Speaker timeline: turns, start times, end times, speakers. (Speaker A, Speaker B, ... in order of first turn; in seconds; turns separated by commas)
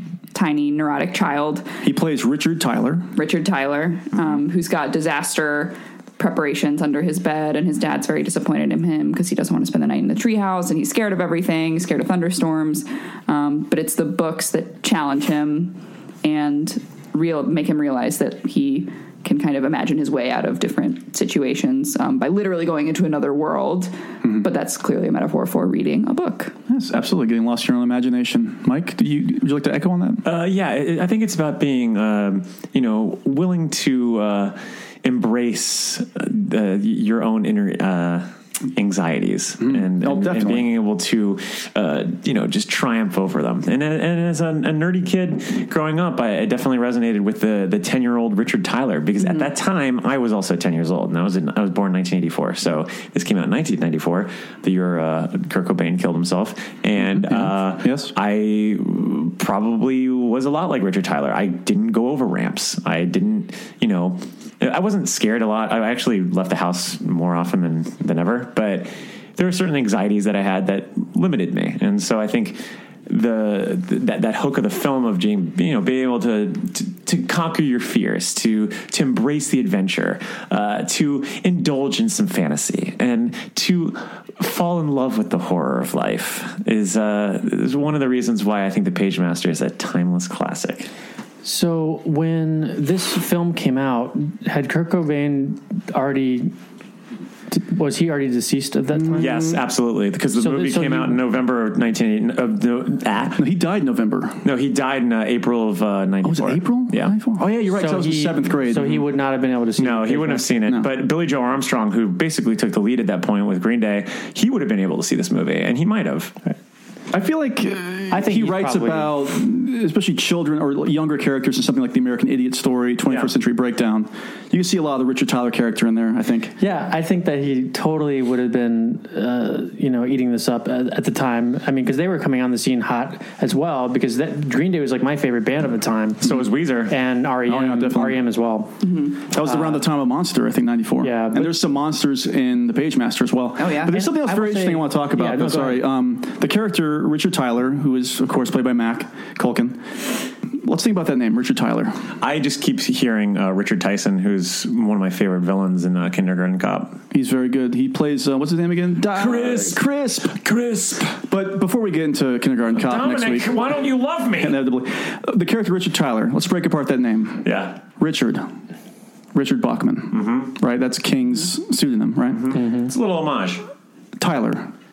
Speaker A: 0.3-1.7, Speaker B: 1.8-3.1, Speaker A: 3.1-26.5, Speaker B: 26.7-30.2, Speaker C: 30.2-90.9, Speaker B: 39.6-40.7, Speaker B: 57.0-58.1, Speaker D: 91.4-96.5, Speaker D: 97.5-99.5, Speaker B: 98.9-99.5, Speaker C: 99.2-103.4, Speaker D: 100.4-101.2, Speaker B: 103.3-104.4, Speaker C: 104.4-107.1, Speaker B: 106.2-109.0, Speaker D: 107.7-110.5, Speaker C: 109.8-116.3, Speaker B: 117.1-126.6, Speaker D: 118.1-119.2, Speaker D: 126.6-138.7, Speaker C: 136.2-136.9, Speaker B: 137.5-138.2, Speaker A: 138.8-139.2, Speaker B: 139.2-152.0, Speaker D: 139.4-139.8, Speaker D: 141.0-141.6, Speaker A: 143.6-144.0, Speaker D: 144.0-145.9, Speaker C: 152.2-157.0, Speaker B: 157.1-160.4, Speaker C: 159.1-159.8, Speaker C: 160.4-161.2, Speaker B: 161.1-163.6, Speaker C: 162.7-164.6, Speaker B: 164.4-168.5, Speaker C: 167.4-167.8, Speaker B: 169.3-172.5, Speaker C: 170.1-170.5, Speaker C: 172.3-173.6, Speaker D: 172.5-172.9, Speaker B: 174.2-174.7